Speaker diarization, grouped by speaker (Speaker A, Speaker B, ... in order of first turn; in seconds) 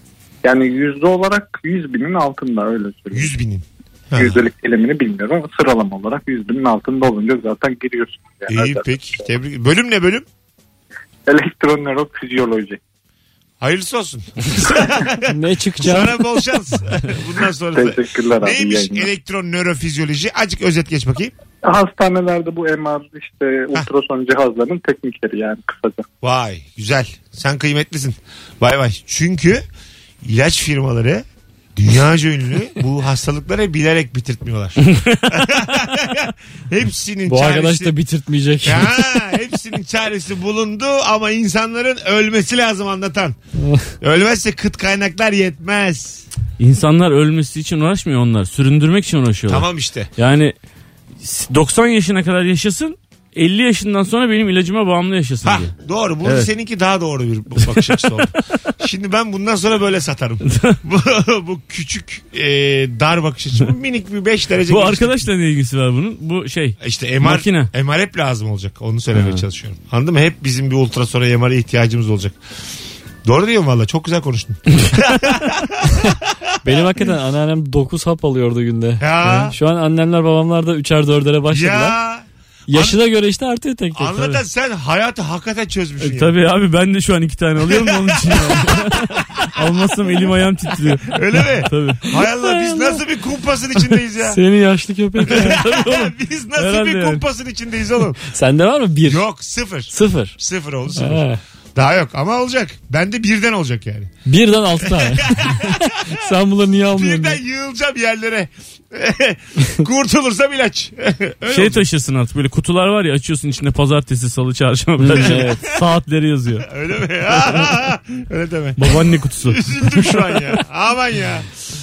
Speaker A: 0.4-3.3, 4.2-9.2, 11.2-12.8, 17.7-19.1, 21.6-26.1
Speaker B: 3.1-4.5, 8.5-10.2, 13.6-21.3, 26.2-29.6, 30.2-31.2, 31.8-37.9, 38.6-43.4, 44.0-46.2, 49.5-50.1, 55.4-65.3, 66.8-72.3, 73.2-76.9, 79.0-79.5, 81.5-83.0, 83.9-86.3, 87.6-89.8, 91.0-94.4, 95.2-98.2, 99.0-101.2, 101.7-104.1, 104.8-106.2, 106.9-111.8, 115.2-115.4, 116.6-121.5
Speaker C: 15.3-16.2, 37.3-39.1, 43.6-43.9, 76.6-82.0, 82.7-84.3, 92.4-93.0, 94.2-95.6, 98.3-99.2, 99.9-100.3, 101.0-101.4, 104.2-107.4, 115.0-115.6
Speaker D: 34.9-35.3, 46.6-50.5, 51.2-55.7, 56.2-56.5, 57.6-58.2, 60.5-60.8, 64.7-67.7, 69.1-69.4, 86.0-92.1, 95.2-97.2, 111.5-116.7, 118.8-120.4